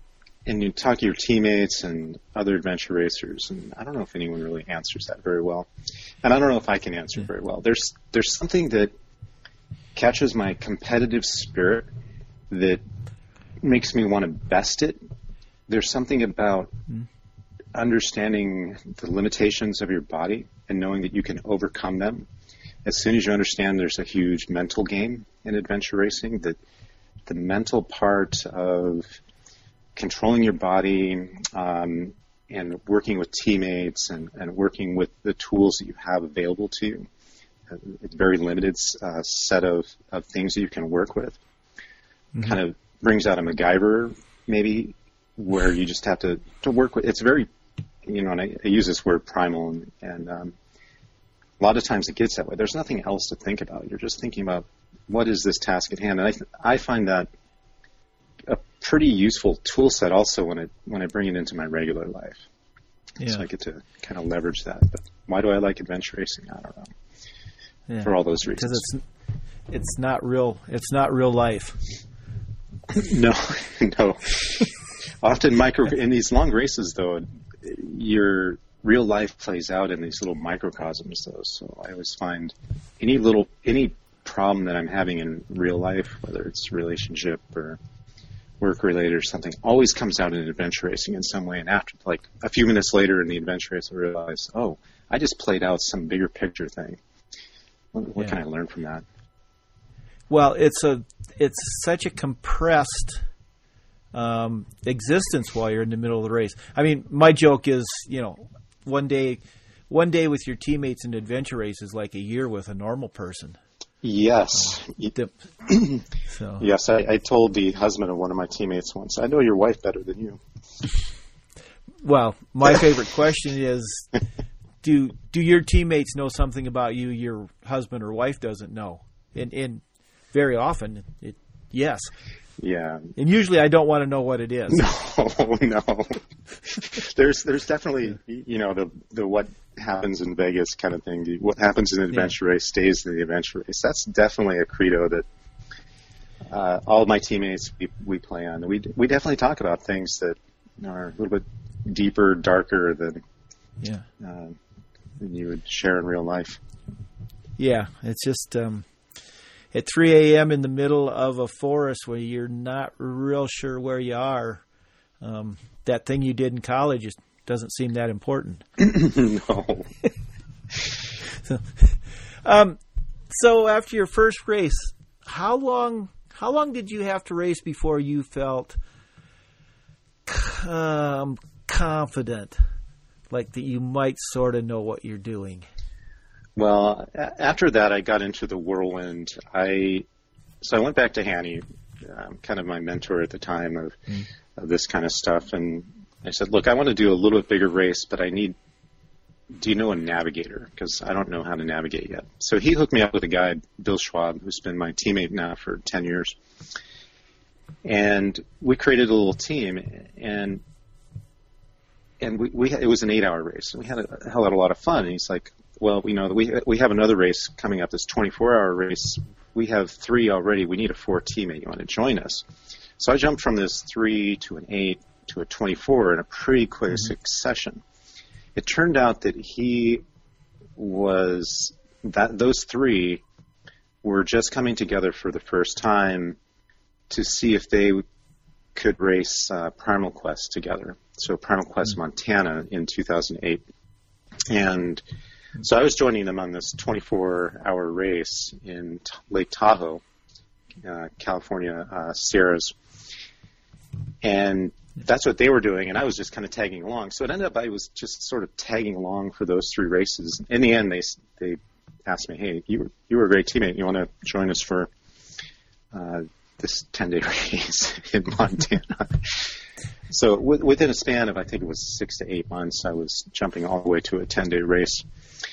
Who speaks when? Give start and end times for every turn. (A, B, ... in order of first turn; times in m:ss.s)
0:00.5-0:05.7 A
0:06.2-0:08.9 A
0:10.0-0:11.9 A
0:12.5-0:12.8 A
0:13.6-0:15.0 A
0:15.7-0:16.7 A
0:17.7-0:22.3 A
0:22.8-0:26.6 A
0:27.3-0:29.2 A
0:30.0-0:37.1 A
0:37.7-0:41.4 A
0:42.4-0:47.5 A
0:48.0-0:50.6 A
0:51.6-0:57.3 A
0:58.5-1:02.4 A
1:03.2-1:03.4 B
1:03.3-1:06.9 A
1:07.9-1:09.0 B
1:08.0-1:08.9 A
1:09.7-1:11.8 B
1:12.9-1:27.8 A
1:28.6-1:37.0 A
1:37.9-1:39.0 A
1:40.3-1:43.2 B
1:44.1-1:53.6 B
1:54.0-1:56.1 A
1:56.3-1:56.6 B
1:56.6-2:00.4 A
2:02.0-2:04.1 B
2:04.8-2:12.1 B
2:12.6-2:13.2 A
2:13.2-2:14.9 B
2:14.7-2:25.3 A
2:26.5-2:33.2 A
2:34.2-2:34.6 A
2:35.2-2:36.6 A
2:37.6-2:38.9 B
2:39.7-2:44.6 B
2:45.2-2:48.7 B
2:48.8-2:49.9 A
2:51.4-2:52.8 B
2:53.3-2:58.8 B
3:00.3-3:02.6 B
3:03.3-3:05.7 B
3:06.6-3:10.1 A
3:10.6-3:18.6 A
3:19.5-3:26.4 A
3:27.8-3:30.6 A
3:32.2-3:42.5 A
3:43.0-3:47.8 A
3:48.6-3:50.0 A
3:50.8-3:53.2 A
3:54.0-3:56.4 A
3:57.1-3:58.0 A
3:58.8-4:03.6 A
4:04.5-4:05.0 A
4:05.6-4:10.0 A
4:10.8-4:12.8 A
4:14.2-4:24.9 A
4:25.9-4:29.6 A
4:30.1-4:35.1 A